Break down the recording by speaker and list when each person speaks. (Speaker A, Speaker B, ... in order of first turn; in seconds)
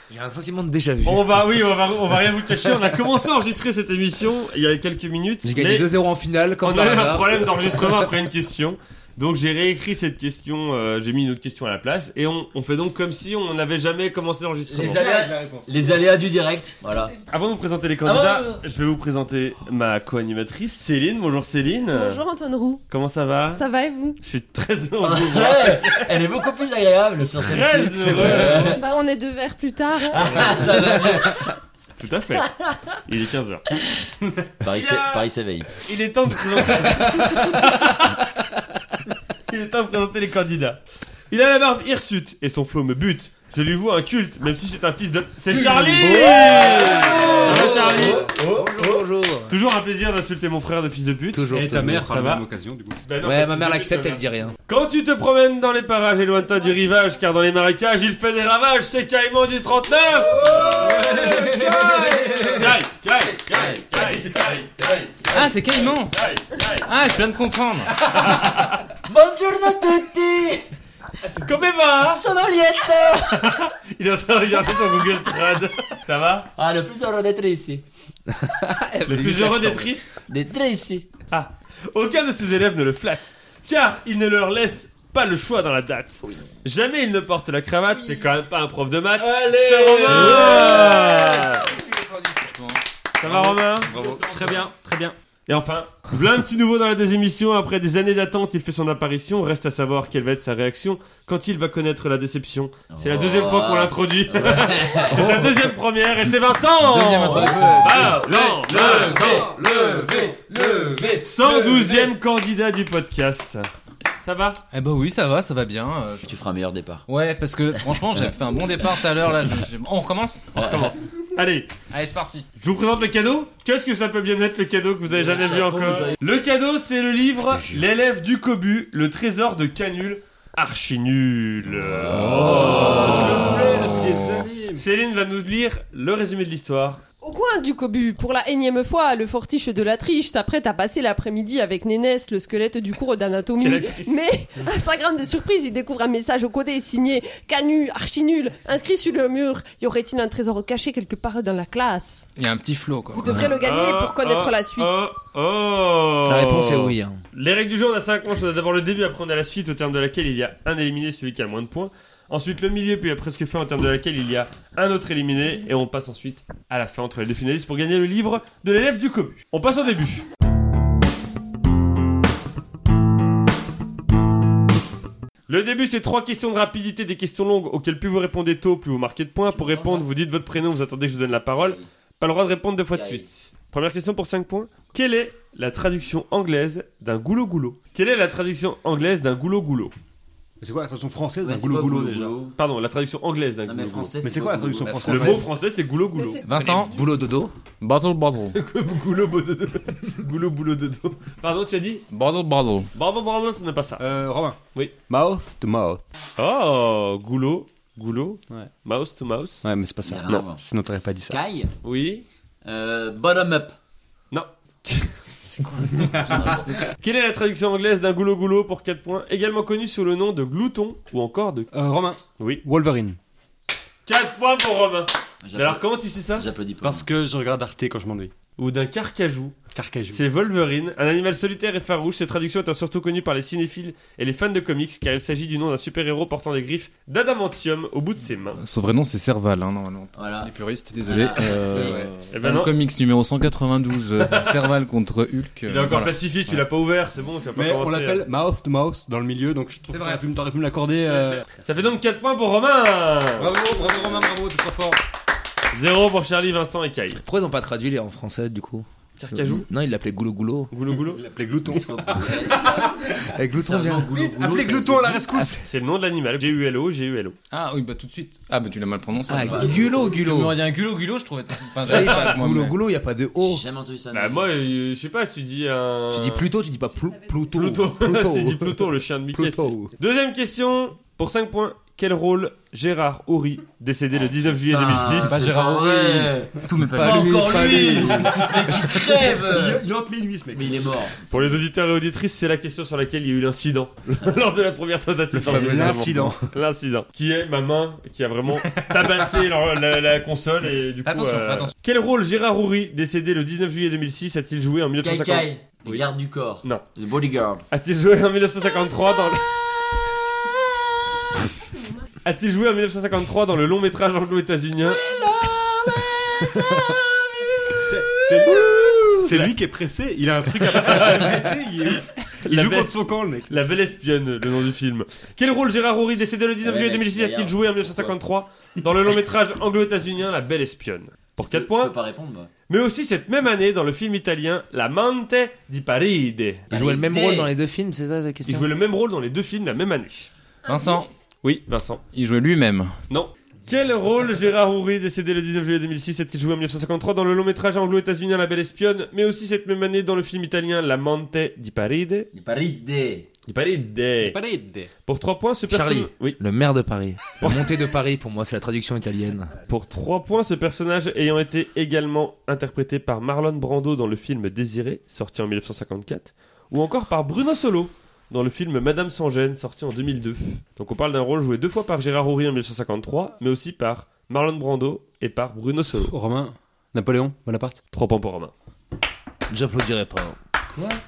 Speaker A: 0.1-1.4, 5.4-8.1, 45.9-49.6, 51.3-52.1, 53.2-54.5, 78.3-79.9, 90.5-92.4, 105.2-105.5, 106.9-111.2, 127.5-127.8, 156.2-157.2, 194.8-195.5, 196.6-197.5, 257.1-260.7, 263.2-265.5, 269.3-270.6, 271.9-273.6, 276.1-279.9, 286.9-289.0, 295.4-296.4, 318.5-319.2, 336.7-338.7, 355.7-359.5, 379.5-380.4
Speaker B: 1.0-5.9, 6.6-15.1, 17.3-22.2, 22.9-23.6, 24.2-26.1, 27.4-28.8, 32.0-33.7, 34.7-35.2, 35.8-38.3, 39.5-40.8, 41.3-48.3, 49.5-52.4, 53.0-61.3, 62.3-65.4, 66.1-66.9, 68.1-68.9, 71.3-72.2, 73.3-76.5, 79.1-80.2, 81.3-91.7, 93.2-109.8, 111.1-113.7, 114.2-114.6, 120.7-121.7, 122.6-137.0, 143.6-144.3, 153.3-170.2, 175.5-189.9, 192.6-194.1, 195.1-196.5, 198.5-202.0, 202.9-204.0, 206.4-209.7, 211.8-212.2, 214.3-221.7, 222.4-222.6, 224.1-226.5, 228.6-229.6, 230.1-238.6, 242.3-242.7, 244.2-244.6, 245.7-248.3, 251.1-253.6, 255.7-257.2, 259.2-259.7, 260.7-261.2, 265.6-267.4, 271.9-272.4, 274.1-276.4, 277.5-285.4, 291.2-306.0, 307.7-309.7, 312.2-315.0, 319.2-319.5, 320.6-321.6, 322.4-331.9, 332.7-336.7, 338.5-340.3, 341.4-342.0, 343.1-352.3, 353.5-354.4, 355.1-356.4, 357.4-357.7, 359.7-376.1, 377.9-378.5
Speaker C: 14.7-16.1, 51.5-53.0, 60.5-62.6, 89.2-91.6, 93.3-94.8, 108.1-111.2, 132.4-134.8, 190.6-192.3, 194.2-195.5, 204.0-206.0, 209.6-211.4, 215.9-216.8, 221.7-223.2, 226.8-228.3, 229.7-230.2, 241.5-242.2, 247.5-251.5, 253.4-255.0, 260.8-263.3, 264.1-265.6, 287.9-291.1, 295.4-296.4, 317.8-323.6, 354.2-354.9, 376.0-377.8
Speaker D: 14.7-17.1, 18.0-18.6, 25.0-28.8, 30.1-31.5, 34.6-35.7, 46.3-49.0, 60.4-62.7, 63.5-63.8, 69.1-70.7, 72.0-73.4, 76.5-77.8, 80.3-81.1, 90.3-91.0, 102.9-105.5, 107.2-111.6, 116.3-117.1, 117.8-118.3, 120.5-121.0, 125.2-126.2, 131.7-133.5, 179.5-180.1, 181.6-181.9, 182.9-183.3, 191.4-192.6, 193.7-195.3, 210.0-210.6, 211.3-211.8, 212.6-213.8, 216.2-216.8, 225.4-227.1, 240.2-240.5, 241.1-242.1, 261.7-265.2, 269.4-269.9, 273.4-274.5, 284.6-289.9, 290.5-291.1, 305.0-307.6, 326.6-328.1, 331.4-332.5, 336.7-337.5, 352.3-353.3
Speaker E: 21.8-22.8, 23.5-24.2, 28.8-30.5, 137.2-152.3, 153.1-155.1, 196.1-196.8, 311.8-312.1, 315.1-315.5, 316.4-317.0, 340.6-341.1
Speaker F: 65.3-66.2, 66.8-68.1, 92.4-92.8, 106.9-108.0, 114.7-116.3, 117.1-120.8, 121.9-122.5, 152.4-153.4, 196.4-197.0, 197.8-198.6, 202.1-202.9, 238.6-246.2, 249.9-250.2, 267.5-272.8, 285.1-287.8, 301.0-301.7, 340.7-341.1, 342.1-342.9